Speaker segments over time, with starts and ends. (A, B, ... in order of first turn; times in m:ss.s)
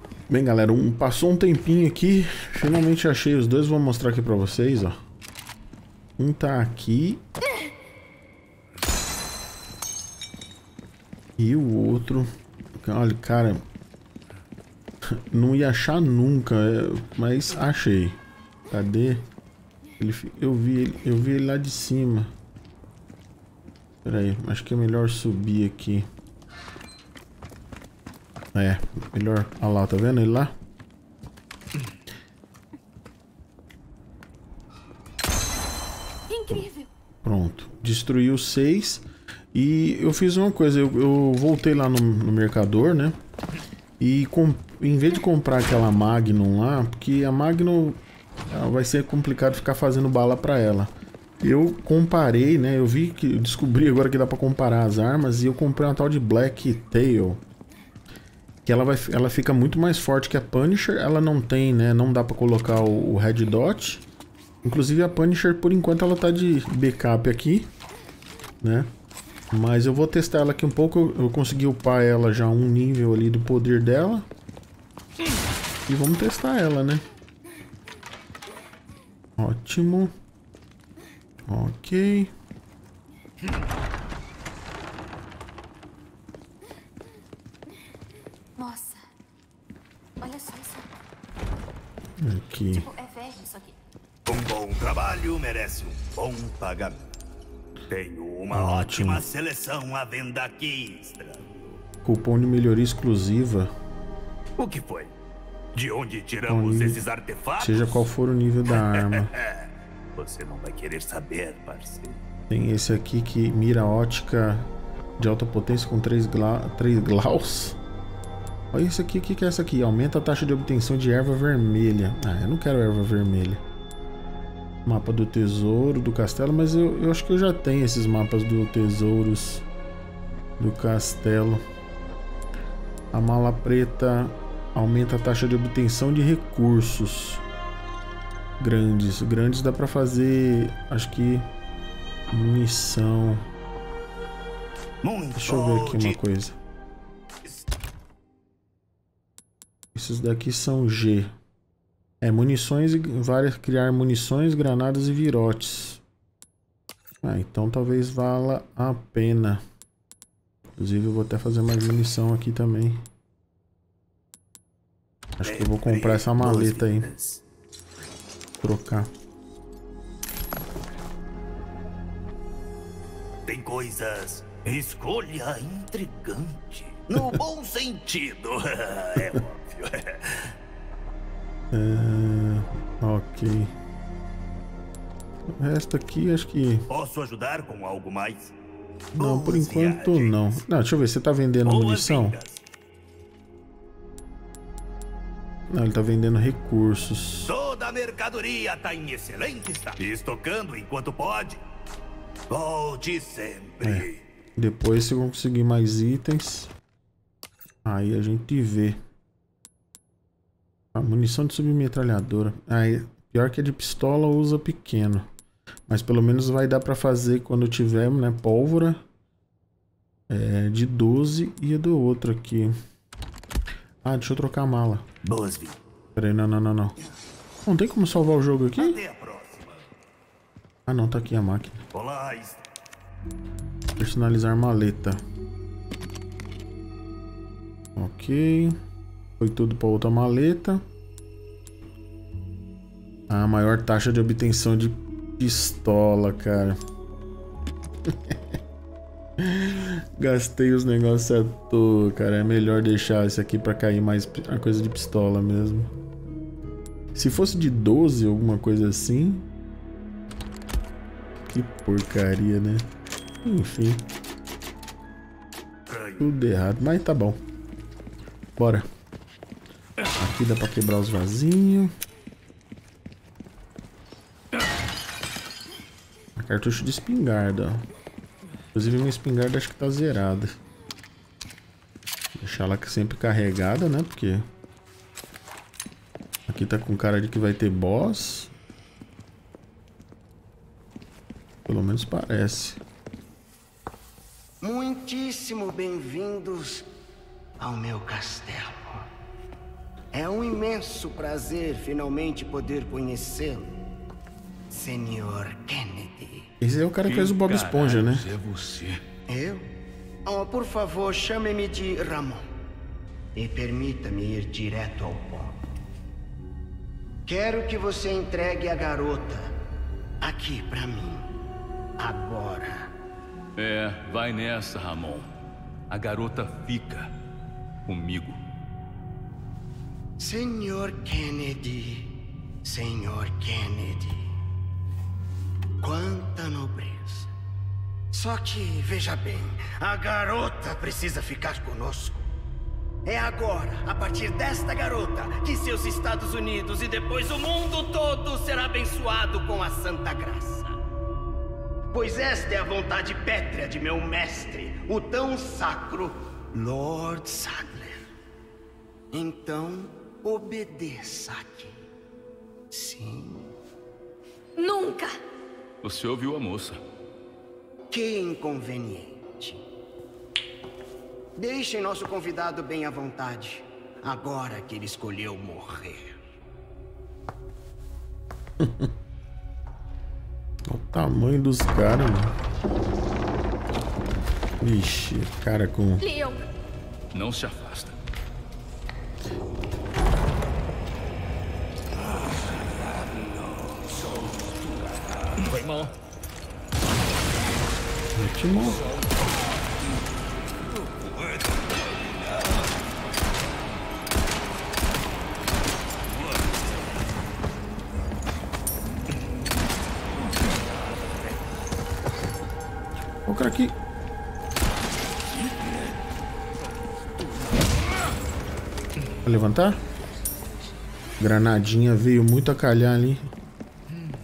0:00.3-0:05.0 A
0:06.2-0:07.2 A
0:11.4-0:13.6 A
0:15.0-0:18.2 A
0:18.7-0:19.3 A
0:20.0-0:22.3 A
0:24.0-0:26.1 A
0:28.5-0:30.5 A
0:36.3-0:36.9 B
0:37.2-0:43.2 A
0:44.0-0:50.9 A
0:51.4-0:57.4 A
0:58.7-1:04.0 A
1:04.6-1:07.7 A
1:08.6-1:08.9 A
1:09.5-1:14.3 A
1:15.9-1:17.0 A
1:19.4-1:20.1 A
1:21.5-1:22.3 A
1:28.6-1:29.0 B
1:30.2-1:30.9 B
1:32.2-1:32.9 A
1:32.7-1:33.8 B
1:34.3-1:37.1 C
1:37.9-1:41.4 C
1:38.5-1:39.2 A
1:42.0-1:43.7 A
1:44.6-1:45.1 C
1:45.7-1:48.1 C
1:46.5-1:47.0 A
1:47.6-1:49.3 A
1:48.7-1:49.6 C
1:50.2-1:52.2 C
1:52.5-1:54.7 A
1:55.2-1:57.8 A
1:58.7-2:03.6 A
2:04.8-2:09.6 A
2:10.6-2:11.6 A
2:13.1-2:17.4 A
2:18.6-2:21.5 A
2:22.3-2:23.4 A
2:25.0-2:26.2 C
2:25.4-2:26.6 A
2:30.0-2:31.3 A
2:32.2-2:36.0 A
2:37.2-2:39.6 A
2:40.8-2:43.0 A
2:45.4-2:47.1 A
2:45.4-2:47.4 C
2:48.6-2:49.1 A
2:53.5-3:00.5 C
3:01.7-3:03.7 A
3:05.5-3:06.9 A
3:06.9-3:08.5 C
3:09.1-3:10.6 C
3:09.2-3:12.4 A
3:11.6-3:12.6 C
3:15.7-3:17.5 A
3:17.4-3:21.6 C
3:22.5-3:24.2 C
3:23.8-3:26.7 A
3:27.8-3:29.0 A
3:30.9-3:35.3 A
3:35.9-3:39.0 A
3:40.3-3:42.7 A
3:44.0-3:45.1 A
3:45.2-3:45.8 C
3:46.2-3:47.0 A
3:47.6-3:49.0 A
3:48.8-3:49.8 C
3:50.9-3:51.8 A
3:51.9-3:52.6 C
3:54.0-3:55.2 A
3:58.0-3:58.8 A
3:59.4-4:00.8 A
4:03.3-4:06.8 A
4:08.1-4:08.4 A
4:09.4-4:15.9 A
4:17.2-4:19.4 A
4:21.5-4:22.9 A
4:23.4-4:24.0 A
4:25.9-4:26.3 C
4:26.2-4:27.4 A
4:28.6-4:28.9 A
4:30.2-4:31.9 A
4:36.4-4:37.8 A
4:38.7-4:40.6 A
4:42.4-4:44.5 A
4:46.5-4:48.5 A
4:51.7-4:52.8 A
4:54.6-4:56.9 D
4:57.6-4:59.1 D
5:00.1-5:03.8 D
5:04.7-5:06.5 D
5:06.6-5:08.3 A
5:07.0-5:09.0 E
5:09.3-5:09.7 D
5:10.2-5:12.5 D
5:13.4-5:15.6 D
5:17.3-5:19.5 D
5:20.2-5:21.3 D
5:22.0-5:22.9 D
5:23.6-5:25.3 E
5:25.9-5:27.1 E
5:27.9-5:28.4 E
5:30.2-5:34.3 D
5:35.8-5:37.3 D
5:38.1-5:42.3 D
5:43.0-5:50.8 D
5:51.9-5:58.1 D
5:59.1-6:01.8 D
6:02.7-6:03.5 D
6:04.6-6:05.2 B
6:05.8-6:06.8 E
6:07.9-6:09.6 D
6:11.4-6:16.2 D
6:18.6-6:18.9 A
6:20.7-6:22.4 A
6:24.6-6:26.0 A
6:26.0-6:26.4 B
6:27.1-6:28.0 E
6:32.0-6:35.3 C
6:35.4-6:35.9 E
6:38.2-6:38.8 A
6:53.3-6:53.8 A
6:55.4-6:55.8 C
6:59.2-6:59.8 A
7:01.2-7:03.3 A